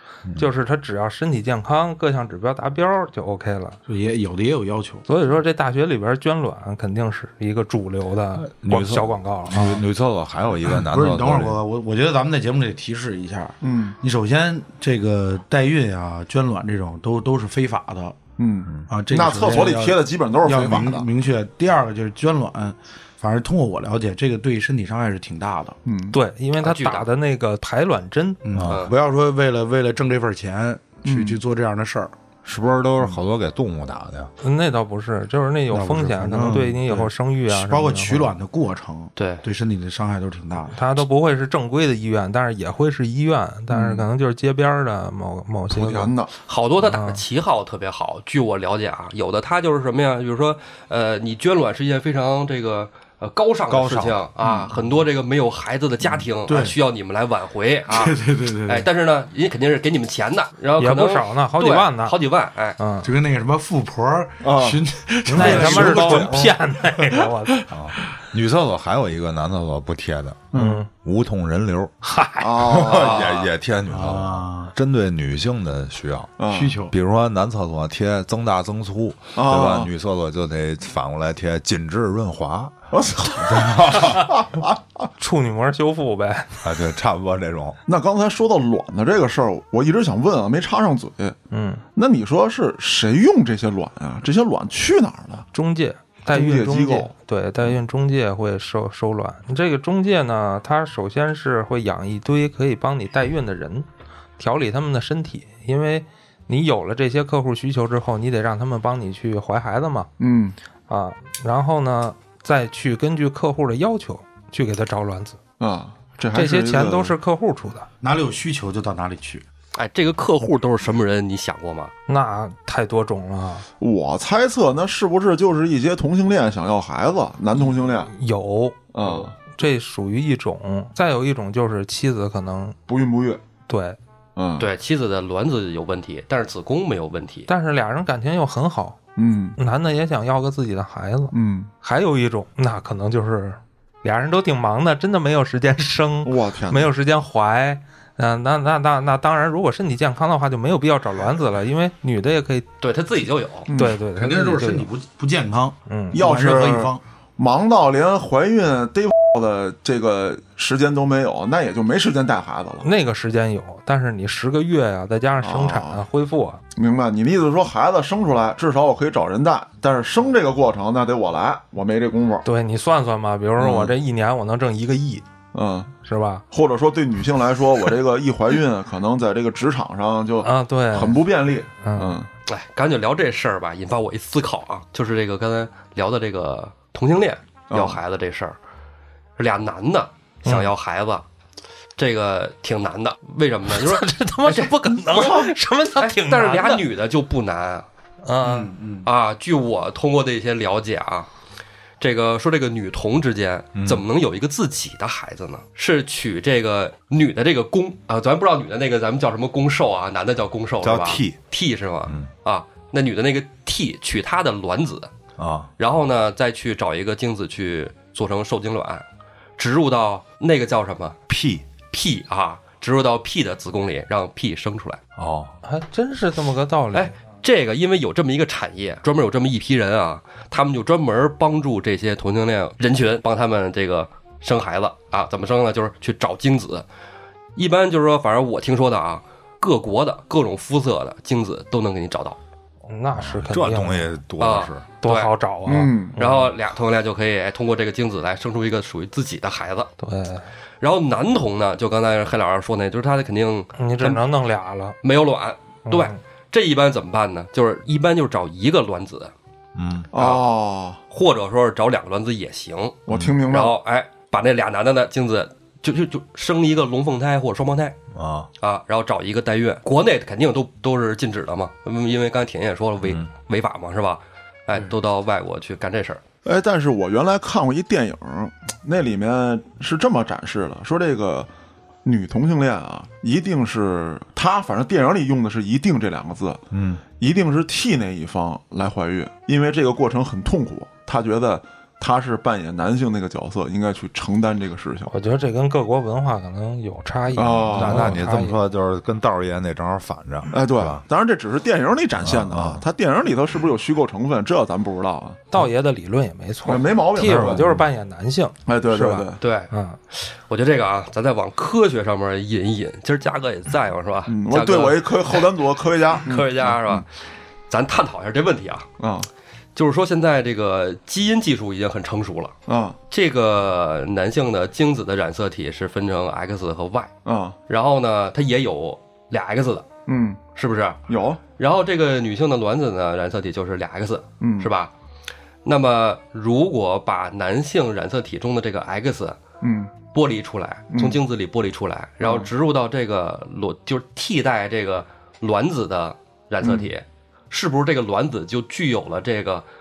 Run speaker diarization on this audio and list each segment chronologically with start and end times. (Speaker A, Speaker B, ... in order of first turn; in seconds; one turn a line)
Speaker A: 0.3-3.8
Speaker B: 3.9-5.0
Speaker A: 5.0-9.8
Speaker C: 8.4-11.6
Speaker B: 10.7-18.2
Speaker D: 13.6-14.0
Speaker D: 18.4-21.1
Speaker B: 18.9-25.8
Speaker D: 25.9-26.2
Speaker A: 26.1-28.4
Speaker E: 26.6-27.1
Speaker B: 28.4-32.1
Speaker E: 28.7-28.9
Speaker D: 31.0-31.4
Speaker C: 32.4-34.3
Speaker A: 34.4-38.3
Speaker B: 35.7-40.9
Speaker E: 39.1-39.4
Speaker A: 40.7-46.1
Speaker D: 43.7-44.0
Speaker D: 45.7-46.3
Speaker E: 46.4-62.8
Speaker A: 46.8-47.2
Speaker C: 53.7-54.2
Speaker D: 54.4-54.7
Speaker B: 56.5-56.8
Speaker B: 57.9-58.9
Speaker A: 60.8-62.2
Speaker A: 62.8-63.1
Speaker B: 63.0-67.6
Speaker D: 64.4-64.8
Speaker A: 65.3-67.7
Speaker D: 65.4-66.3
Speaker C: 67.7-71.9
Speaker D: 70.5-70.8
Speaker A: 70.5-70.9
Speaker A: 72.0-72.8
Speaker D: 72.4-73.4
Speaker C: 72.6-76.3
Speaker E: 72.9-73.4
Speaker B: 73.9-74.7
Speaker D: 76.4-76.8
Speaker B: 76.5-76.9
Speaker C: 76.9-82.8
Speaker D: 79.3-79.9
Speaker D: 82.9-84.6
Speaker C: 83.3-84.3
Speaker A: 84.0-84.3
Speaker A: 85.2-86.6
Speaker C: 86.6-87.8
Speaker D: 87.9-91.3
Speaker A: 91.5-91.8
Speaker D: 91.9-95.4
Speaker A: 95.5-110.1
Speaker D: 96.3-97.1
Speaker D: 110.2-110.5
Speaker A: 110.9-115.4
Speaker D: 115.6-117.2
Speaker A: 116.3-117.9
Speaker B: 118.0-119.4
Speaker E: 119.8-121.9
Speaker A: 122.1-123.7
Speaker D: 123.8-128.1
Speaker A: 128.1-132.8
Speaker D: 128.9-129.3
Speaker D: 132.9-133.4
Speaker A: 133.7-134.0
Speaker D: 134.3-134.7
Speaker E: 134.6-137.5
Speaker A: 137.5-139.0
Speaker D: 139.2-139.6
Speaker A: 139.6-152.7
Speaker D: 141.3-141.7
Speaker D: 146.2-146.9
Speaker E: 152.8-153.7
Speaker D: 153.7-154.0
Speaker A: 153.7-154.9
Speaker B: 154.2-157.0
Speaker A: 155.9-156.2
Speaker D: 156.1-162.9
Speaker A: 162.8-166.6
Speaker D: 165.4-166.0
Speaker D: 166.7-172.4
Speaker A: 172.4-175.2
Speaker D: 173.6-173.9
Speaker D: 175.5-175.9
Speaker A: 176.0-176.4
Speaker D: 176.5-182.3
Speaker A: 180.4-181.2
Speaker A: 181.8-182.2
Speaker E: 182.4-188.6
Speaker D: 187.7-188.0
Speaker E: 189.4-191.2
Speaker A: 190.4-190.7
Speaker E: 192.0-197.9
Speaker A: 193.7-196.8
Speaker A: 198.2-198.7
Speaker B: 198.4-199.1
Speaker E: 199.0-201.3
Speaker E: 202.0-215.1
Speaker C: 203.7-204.0
Speaker C: 210.8-211.4
Speaker C: 215.4-215.7
Speaker E: 215.8-219.0
Speaker E: 219.6-221.2
Speaker C: 221.3-221.7
Speaker E: 221.9-225.0
Speaker C: 225.2-225.5
Speaker A: 225.6-227.1
Speaker E: 226.9-236.8
Speaker E: 237.6-242.4
Speaker A: 242.9-244.1
Speaker C: 243.2-244.8
Speaker E: 244.4-245.3
Speaker A: 245.0-246.5
Speaker D: 245.7-246.2
Speaker E: 246.2-249.9
Speaker A: 250.0-250.4
Speaker E: 250.8-254.2
Speaker A: 253.8-254.9
Speaker E: 255.0-259.3
Speaker A: 255.9-256.1
Speaker C: 259.8-260.1
Speaker D: 260.1-261.0
Speaker E: 260.1-260.4
Speaker E: 261.1-263.0
Speaker D: 263.1-263.8
Speaker E: 263.5-267.9
Speaker C: 268.1-268.5
Speaker E: 268.6-276.2
Speaker D: 276.4-281.5
Speaker D: 282.0-286.6
Speaker C: 286.7-287.0
Speaker D: 287.2-295.1
Speaker A: 295.1-298.6
Speaker D: 297.3-298.2
Speaker C: 297.7-301.0
Speaker D: 300.5-305.4
Speaker C: 302.2-302.8
Speaker A: 305.5-310.0
Speaker D: 306.6-307.7
Speaker C: 307.3-307.8
Speaker D: 308.6-309.4
Speaker E: 309.4-315.5
Speaker D: 314.3-317.0
Speaker E: 316.2-317.1
Speaker E: 317.7-318.9
Speaker D: 319.0-319.3
Speaker E: 319.8-322.5
Speaker D: 322.7-323.0
Speaker E: 323.1-327.1
Speaker D: 327.2-327.6
Speaker E: 327.7-329.9
Speaker D: 330.1-330.4
Speaker E: 330.6-331.0
Speaker D: 331.1-331.4
Speaker E: 331.6-334.9
Speaker D: 334.4-334.7
Speaker E: 335.6-339.4
Speaker D: 339.6-339.9
Speaker E: 340.1-349.6
Speaker D: 340.9-341.2
Speaker D: 342.2-342.5
Speaker D: 346.6-346.9